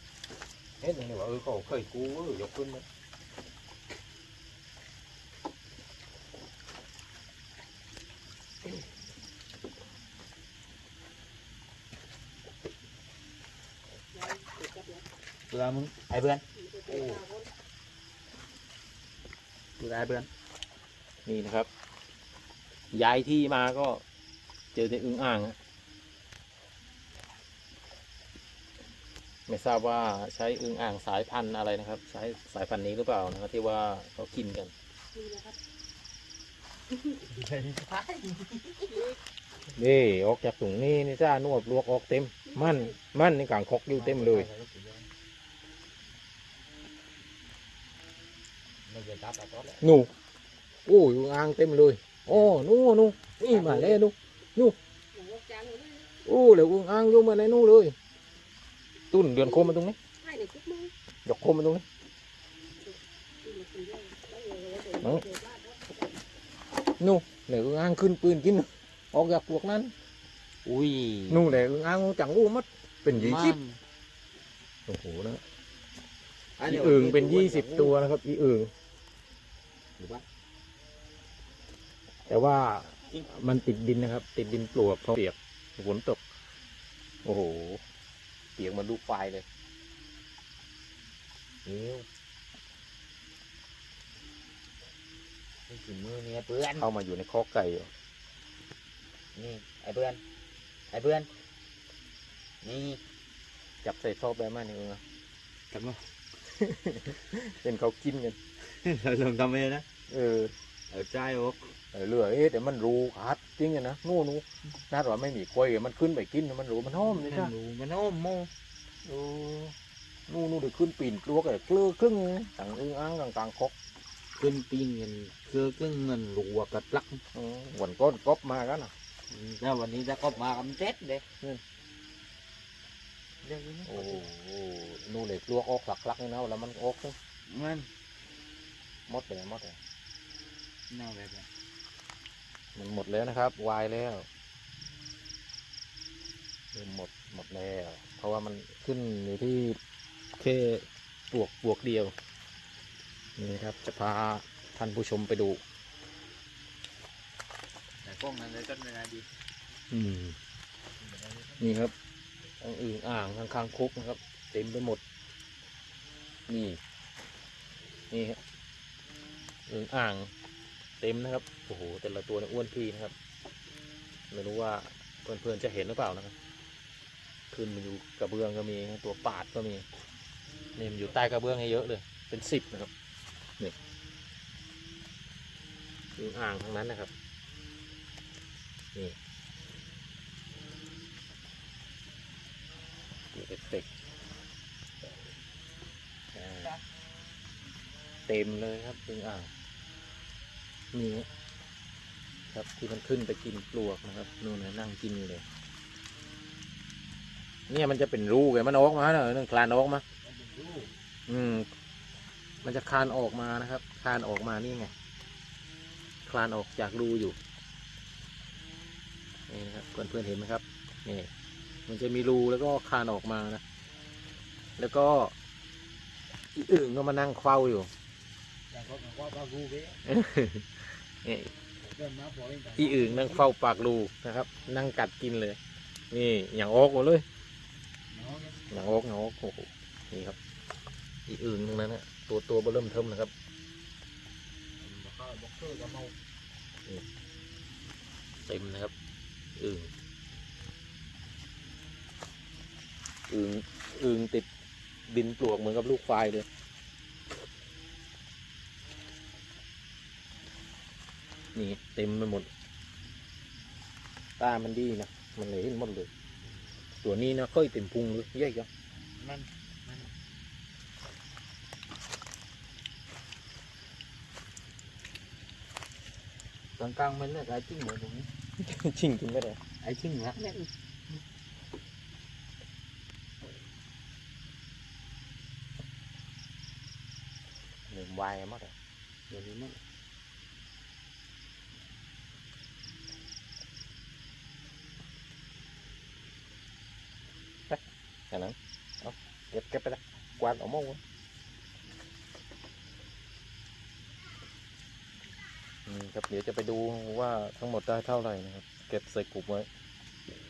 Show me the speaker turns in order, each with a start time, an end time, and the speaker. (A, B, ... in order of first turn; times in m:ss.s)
0:00.8-0:02.8 A
0:14.1-0:15.1 B
0:15.5-0:17.2 C
0:16.6-0:17.5 B
0:19.8-0:20.3 C
0:21.3-0:21.7 A
0:22.9-0:24.0 A
0:24.8-0:25.6 A
0:29.5-0:34.7 A
0:35.1-0:35.6 B
0:37.1-0:39.1 C
0:39.8-0:44.5 A
0:42.5-0:42.9 B
0:43.9-0:45.1 C
0:48.9-0:49.8 C
0:49.8-0:50.1 A
0:50.9-0:54.8 A
0:53.4-0:54.0 C
0:55.1-0:56.1 B
0:56.2-0:58.0 A
0:59.1-1:00.0 A
0:59.4-1:00.9 B
1:01.2-1:01.8 A
1:03.4-1:06.2 B
1:06.9-1:09.9 A
1:10.6-1:11.6 C
1:11.3-1:13.6 A
1:13.1-1:13.8 C
1:14.9-1:15.4 A
1:16.6-1:18.0 C
1:16.6-1:18.7 A
1:20.0-1:20.2 C
1:22.3-1:26.2 A
1:27.2-1:27.8 A
1:28.6-1:29.4 A
1:31.6-1:32.1 C
1:35.7-1:36.9 C
1:36.8-1:37.9 A
1:39.3-1:40.2 C
1:40.9-1:41.3 C
1:42.6-1:43.0 C
1:43.8-1:45.0 A
1:45.7-1:46.0 C
1:46.5-1:48.4 A
1:48.6-1:49.9 C
1:50.1-1:50.6 A
1:50.9-1:51.7 C
1:51.9-1:57.5 A
1:56.9-1:58.5 C
1:59.0-1:59.8 A
2:00.3-2:03.7 A
2:04.4-2:07.2 C
2:07.3-2:08.9 A
2:09.3-2:11.2 C
2:13.4-2:14.2 C
2:13.9-2:17.2 A
2:17.5-2:17.9 C
2:19.1-2:19.8 A
2:20.9-2:21.5 C
2:22.8-2:24.3 A
2:26.7-2:29.8 A
2:30.4-2:32.2 A
2:33.4-2:35.6 A
2:38.0-2:39.3 C
2:39.9-2:40.4 A
2:41.0-2:41.6 C
2:41.6-2:41.9 A
2:42.6-2:45.0 A
2:46.5-2:46.8 A
2:48.1-2:48.4 A
2:49.7-2:50.3 A
2:51.0-2:53.1 A
2:54.3-2:56.3 A
2:57.5-2:59.9 A
3:00.8-3:02.9 A
3:06.2-3:07.1 A
3:13.3-3:13.9 A
3:16.3-3:16.7 A
3:18.3-3:19.5 A
3:20.9-3:21.3 A
3:22.5-3:25.4 A
3:27.7-3:30.0 A
3:30.2-3:30.9 C
3:31.3-3:31.7 A
3:32.6-3:34.9 A
3:36.2-3:37.4 A
3:39.5-3:41.3 A
3:41.9-3:43.6 A
3:44.8-3:45.3 A
3:46.5-3:47.9 A
3:48.7-3:50.0 C
3:50.0-3:51.5 A
3:51.8-3:53.5 C
3:52.8-3:55.6 A
3:56.1-3:57.2 A
3:58.1-3:58.6 C
3:58.7-4:00.4 A
4:01.3-4:03.3 A
4:04.8-4:06.1 C
4:08.5-4:08.9 A
4:09.6-4:09.9 A
4:13.3-4:14.5 A
4:15.1-4:16.5 A
4:21.6-4:22.5 A
4:24.4-4:26.1 A
4:27.0-4:28.7 A
4:29.2-4:30.1 C
4:36.8-4:38.3 C
4:38.6-4:39.6 A
4:39.8-4:40.7 C
4:47.9-4:48.7 A
4:49.3-4:49.8 C
4:57.7-5:01.0 A
5:05.9-5:09.7 A